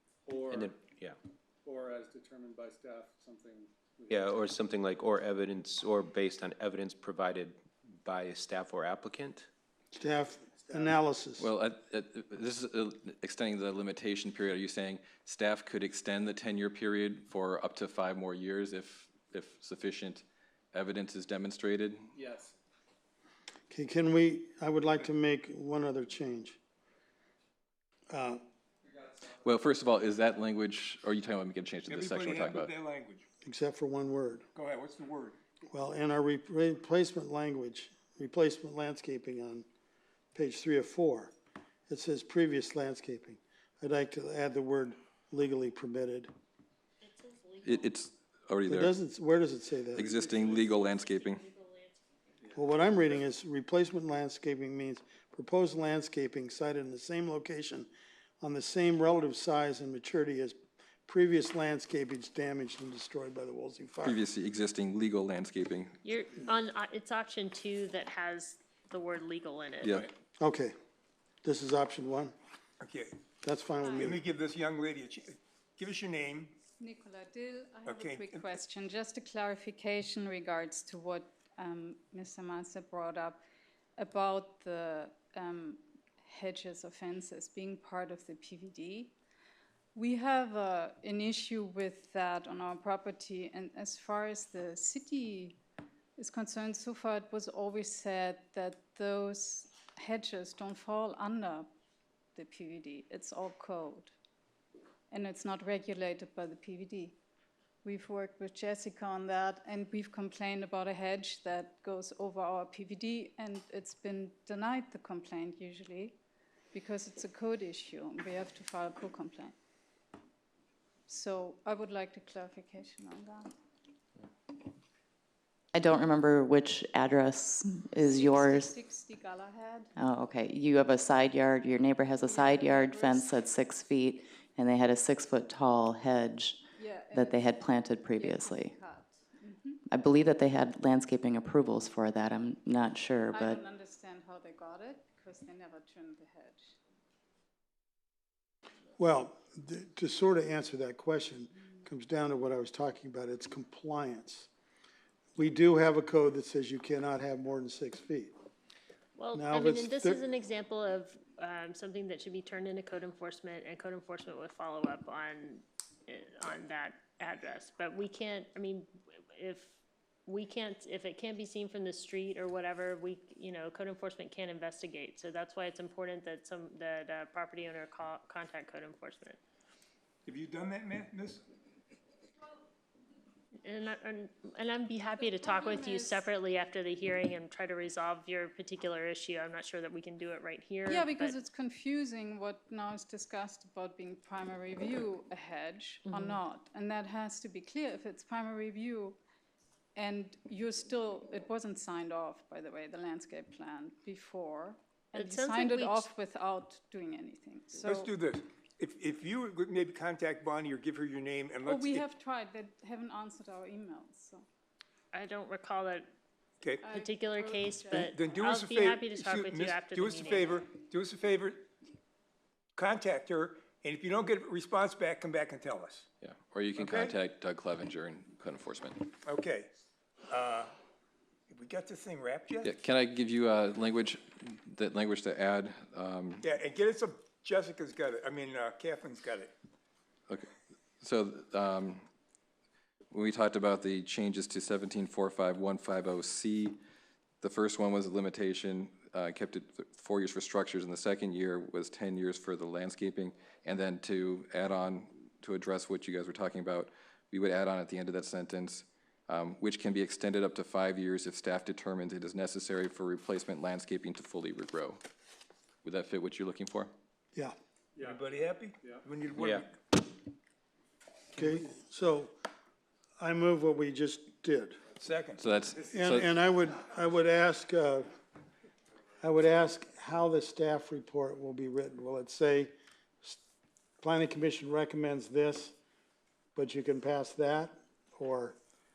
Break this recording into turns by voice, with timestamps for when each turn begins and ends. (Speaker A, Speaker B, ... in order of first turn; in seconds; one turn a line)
Speaker A: 0.2-0.6
Speaker B: 0.5-1.1
Speaker A: 1.6-4.2
Speaker B: 4.1-9.5
Speaker C: 9.9-11.5
Speaker D: 11.4-22.1
Speaker A: 22.1-22.5
Speaker C: 23.7-26.6
Speaker C: 28.1-28.4
Speaker D: 29.3-32.7
Speaker E: 31.9-33.2
Speaker C: 33.4-34.5
Speaker E: 34.5-35.4
Speaker C: 35.7-39.6
Speaker C: 40.3-41.3
Speaker C: 41.9-46.3
Speaker F: 47.0-47.9
Speaker D: 47.6-48.9
Speaker C: 48.7-50.2
Speaker D: 49.9-51.4
Speaker F: 50.1-52.0
Speaker C: 52.5-57.9
Speaker C: 58.4-64.2
Speaker D: 64.0-66.0
Speaker F: 66.0-70.0
Speaker D: 69.8-70.1
Speaker C: 70.4-70.7
Speaker C: 71.4-72.3
Speaker E: 72.8-73.1
Speaker C: 73.4-74.2
Speaker G: 73.8-74.2
Speaker E: 74.0-76.6
Speaker G: 76.8-83.4
Speaker E: 77.8-78.5
Speaker G: 84.0-89.1
Speaker G: 89.9-95.6
Speaker G: 96.2-101.7
Speaker G: 102.3-104.1
Speaker G: 105.1-107.2
Speaker G: 107.8-116.2
Speaker G: 116.7-119.5
Speaker G: 121.1-123.5
Speaker H: 125.7-128.7
Speaker G: 128.0-129.9
Speaker H: 130.0-136.6
Speaker G: 132.2-133.4
Speaker G: 136.8-139.8
Speaker H: 137.1-138.7
Speaker H: 139.9-143.6
Speaker G: 143.3-146.7
Speaker C: 149.0-154.5
Speaker C: 155.3-158.3
Speaker F: 159.2-179.4
Speaker C: 159.3-160.2
Speaker E: 180.2-181.4
Speaker F: 183.6-191.4
Speaker G: 185.2-186.3
Speaker G: 190.8-199.2
Speaker F: 196.1-196.4
Speaker G: 199.9-208.1
Speaker F: 205.1-206.1
Speaker E: 207.8-212.1
Speaker G: 211.6-214.4
Speaker F: 215.1-216.1
Speaker E: 216.6-216.9
Speaker G: 216.8-218.4
Speaker F: 216.9-220.7
Speaker E: 217.9-221.7
Speaker E: 222.8-226.1
Speaker D: 226.2-229.1
Speaker E: 226.8-227.2
Speaker E: 229.2-229.7
Speaker E: 230.3-230.7
Speaker E: 231.5-232.7
Speaker D: 232.6-236.4
Speaker E: 236.4-239.5
Speaker D: 241.0-242.0
Speaker D: 243.1-246.8
Speaker D: 247.4-265.0
Speaker D: 265.8-266.9
Speaker E: 268.0-270.0
Speaker C: 271.3-272.3
Speaker C: 273.2-274.8
Speaker E: 274.9-275.4
Speaker D: 275.4-276.3
Speaker C: 275.9-278.1
Speaker C: 279.2-282.7
Speaker C: 284.0-285.7
Speaker C: 286.5-288.6